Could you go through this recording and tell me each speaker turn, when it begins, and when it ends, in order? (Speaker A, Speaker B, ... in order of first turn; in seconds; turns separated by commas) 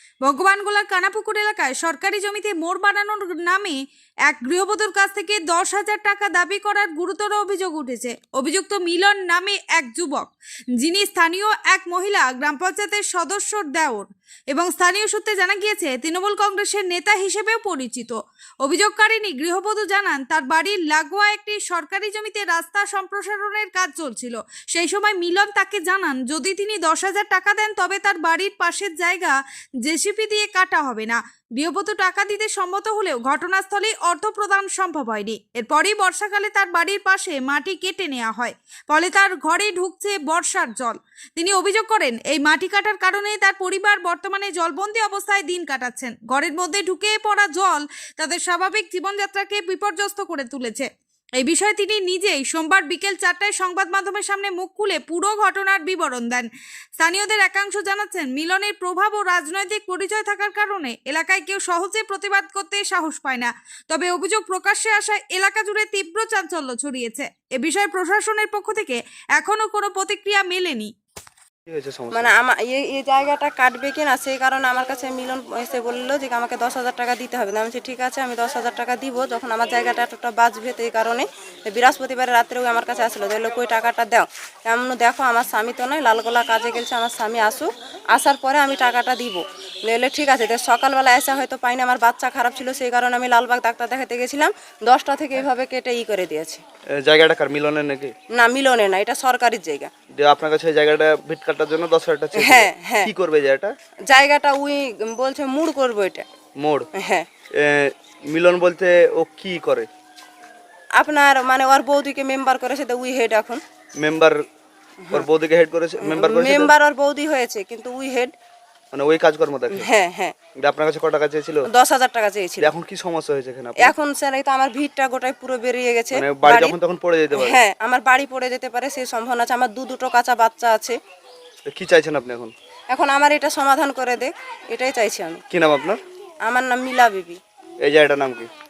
Speaker A: 0.2-70.9, Speaker B: 71.7-72.3, Speaker C: 72.1-96.6, Speaker B: 97.0-98.1, Speaker C: 98.3-99.9, Speaker B: 100.1-103.7, Speaker C: 102.3-103.1, Speaker C: 104.1-106.2, Speaker B: 106.6-106.9, Speaker C: 107.0-107.2, Speaker B: 107.5-109.9, Speaker C: 111.0-113.6, Speaker B: 114.0-114.4, Speaker B: 115.1-116.7, Speaker C: 116.0-118.3, Speaker B: 118.9-119.9, Speaker C: 119.7-120.3, Speaker B: 120.6-121.7, Speaker C: 121.7-122.7, Speaker B: 122.6-123.9, Speaker C: 123.8-126.8, Speaker B: 126.1-127.6, Speaker C: 127.3-130.9, Speaker B: 131.7-132.5, Speaker C: 132.9-135.4, Speaker B: 135.5-136.0, Speaker C: 136.4-137.4, Speaker B: 137.8-138.5